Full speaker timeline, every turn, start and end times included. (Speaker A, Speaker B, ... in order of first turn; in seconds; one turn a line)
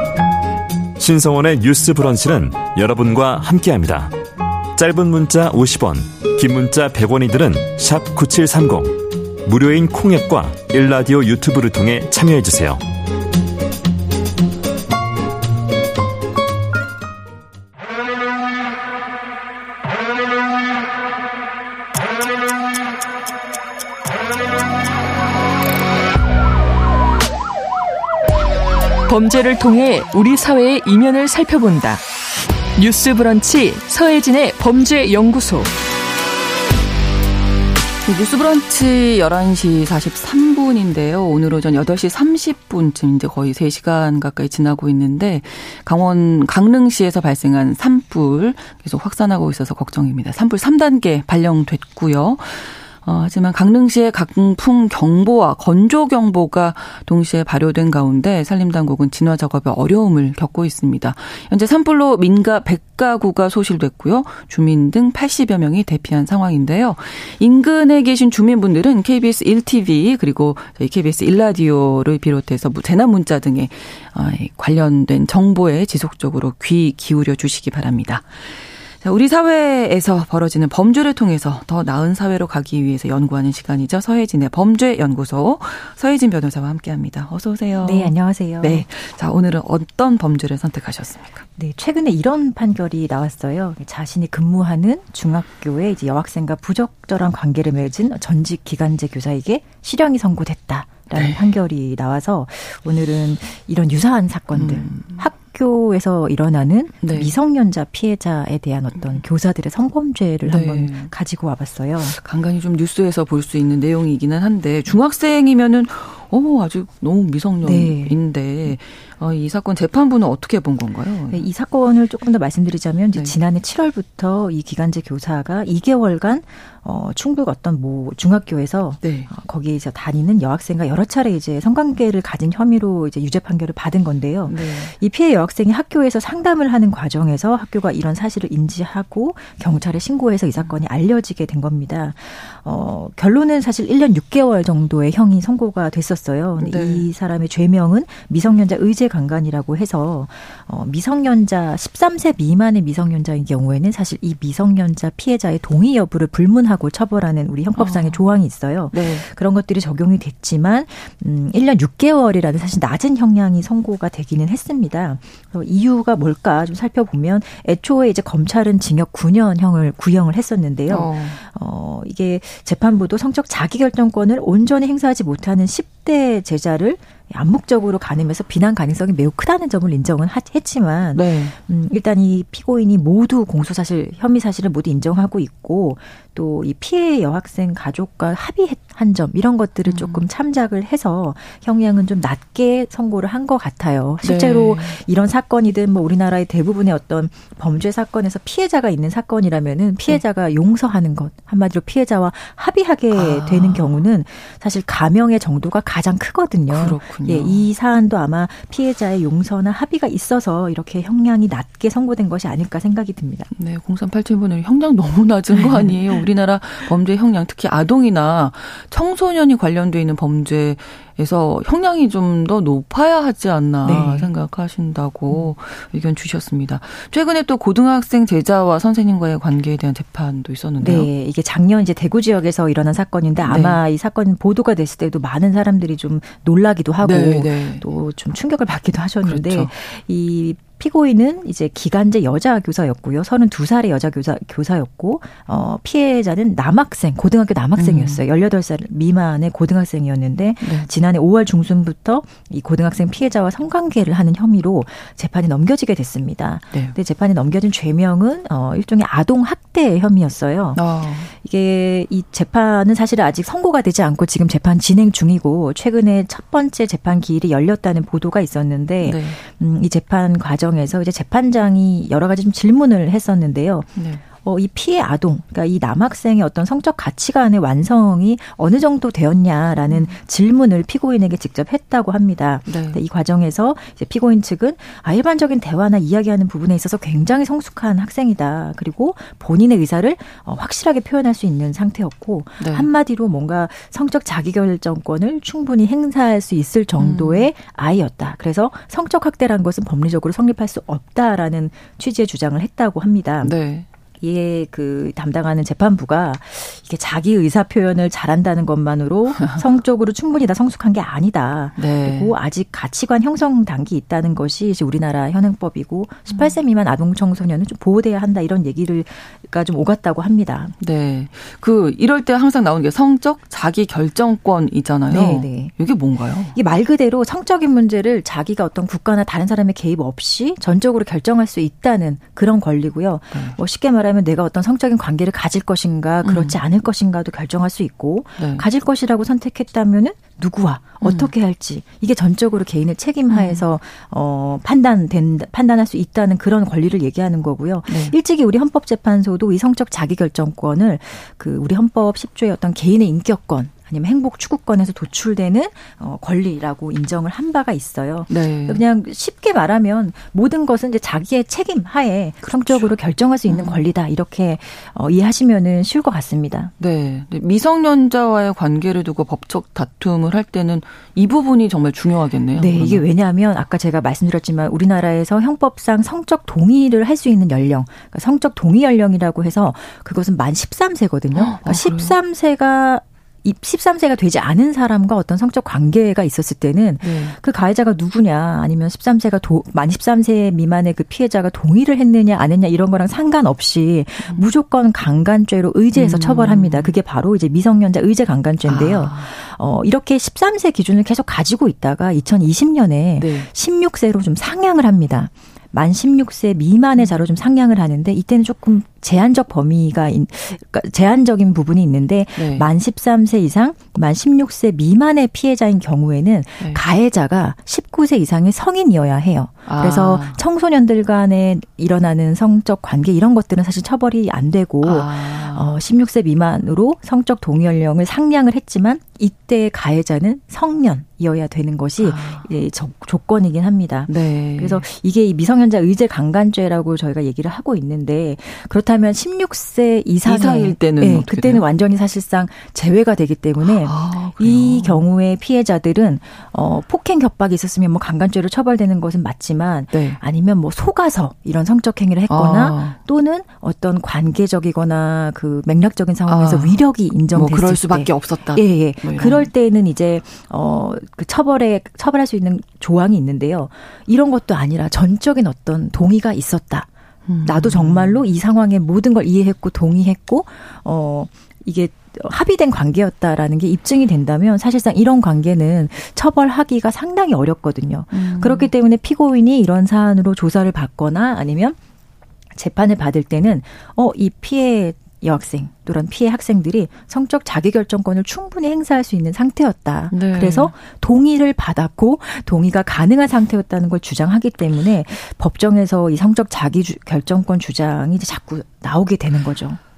Speaker A: 1.0-4.2
Speaker A: 4.8-12.8
Speaker B: 29.1-32.0
Speaker B: 32.8-35.7
Speaker C: 38.1-91.5
Speaker D: 87.8-88.9
Speaker D: 91.6-112.2
Speaker C: 101.1-101.5
Speaker C: 104.5-105.2
Speaker C: 107.0-107.3
Speaker C: 109.0-109.2
Speaker C: 110.4-111.1
Speaker C: 112.1-121.5
Speaker D: 117.6-118.2
Speaker D: 121.3-213.5
Speaker C: 129.0-129.3
Speaker C: 134.5-134.9
Speaker C: 146.6-147.1
Speaker C: 157.8-158.2
Speaker C: 158.9-159.3
Speaker C: 170.9-171.4
Speaker C: 181.1-181.6
Speaker C: 189.9-190.3
Speaker C: 194.2-195.0
Speaker C: 203.1-204.0
Speaker C: 206.7-207.7
Speaker C: 213.6-231.1
Speaker D: 215.5-216.2
Speaker D: 223.8-224.3
Speaker D: 230.8-303.5
Speaker C: 233.4-233.8
Speaker C: 237.0-237.8
Speaker C: 239.2-239.7
Speaker C: 247.8-248.2
Speaker C: 250.6-250.9
Speaker C: 260.8-261.3
Speaker C: 269.0-269.4
Speaker C: 273.9-274.2
Speaker C: 279.9-280.2
Speaker C: 282.7-283.0
Speaker C: 292.6-292.9
Speaker C: 297.0-297.5
Speaker C: 303.4-303.9
Speaker D: 304.2-320.7
Speaker C: 311.8-312.3
Speaker C: 316.3-316.6
Speaker C: 320.8-326.6
Speaker D: 325.1-325.8
Speaker D: 326.5-366.7
Speaker C: 336.2-336.6
Speaker C: 338.4-338.6
Speaker C: 341.0-341.3
Speaker C: 343.3-343.7
Speaker C: 347.9-348.1
Speaker C: 358.3-358.8
Speaker C: 362.4-362.9
Speaker C: 363.5-363.9
Speaker C: 366.8-373.0
Speaker D: 372.6-466.9
Speaker C: 381.3-382.2
Speaker C: 387.0-387.4
Speaker C: 395.9-396.9
Speaker C: 398.6-399.3
Speaker C: 403.2-403.5
Speaker C: 407.0-407.3
Speaker C: 412.4-412.7
Speaker C: 419.7-420.4
Speaker C: 424.8-425.8
Speaker C: 432.0-432.5
Speaker C: 434.1-434.9
Speaker C: 440.2-441.6
Speaker C: 443.6-445.1
Speaker C: 449.9-450.2
Speaker C: 452.3-453.0
Speaker C: 456.3-456.8
Speaker C: 457.3-459.5
Speaker C: 467.3-468.2
Speaker D: 467.4-481.8
Speaker C: 478.1-478.7
Speaker D: 482.6-499.8
Speaker C: 490.1-490.7